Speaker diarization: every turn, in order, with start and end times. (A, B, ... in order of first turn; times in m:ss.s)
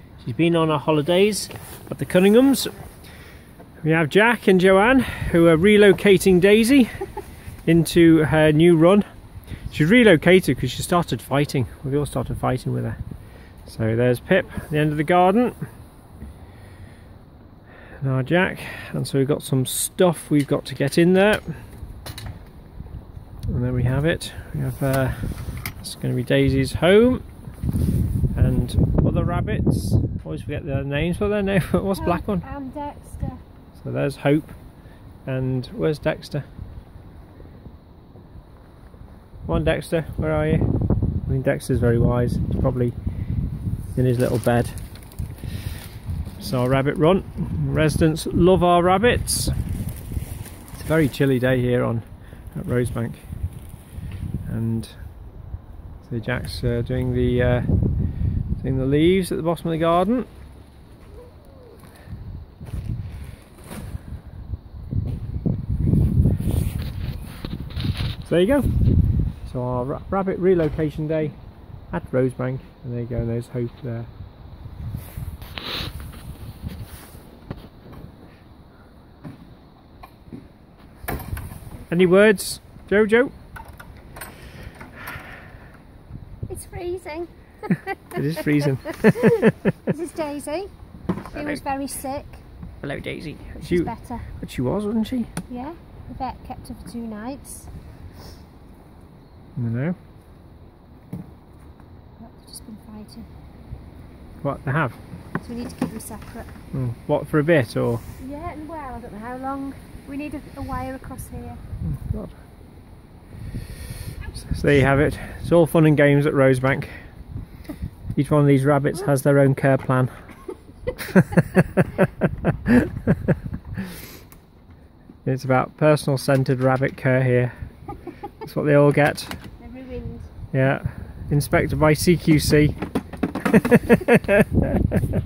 0:00.2-0:02.7 A
0:03.8-0:07.0 A
0:07.6-0:09.0 A
0:09.7-0:13.0 A
0:13.6-0:15.6 A
0:18.0-0:21.6 A
0:23.5-0:27.2 A
0:28.3-0:32.4 A
0:31.9-0:33.4 B
0:33.8-0:34.6 A
0:35.2-0:36.4 A
0:39.4-0:40.7 A
0:41.2-0:42.9 A
0:43.9-0:44.8 A
0:46.4-0:49.5 A
0:50.7-0:53.3 A
0:54.4-0:55.2 A
0:56.0-1:00.3 A
1:08.2-1:08.7 A
1:09.3-1:14.1 A
1:21.9-1:23.3 A
1:26.5-1:30.7 B
1:28.2-1:29.7 A
1:31.3-1:32.4 B
1:31.3-1:31.6 A
1:32.8-1:35.3 A
1:33.6-1:34.3 B
1:35.5-1:37.7 B
1:39.6-1:40.0 A
1:42.2-1:43.3 B
1:44.4-1:45.0 A
1:45.4-1:46.5 B
1:46.7-1:48.0 A
1:48.2-1:51.6 B
1:51.8-1:52.4 A
1:54.5-1:56.9 A
1:58.1-2:00.1 A
2:01.0-2:01.9 A
2:02.5-2:03.1 A
2:05.2-2:07.5 A
2:08.4-2:09.4 A
2:09.6-2:10.3 B
2:10.5-2:12.8 A
2:13.4-2:15.0 A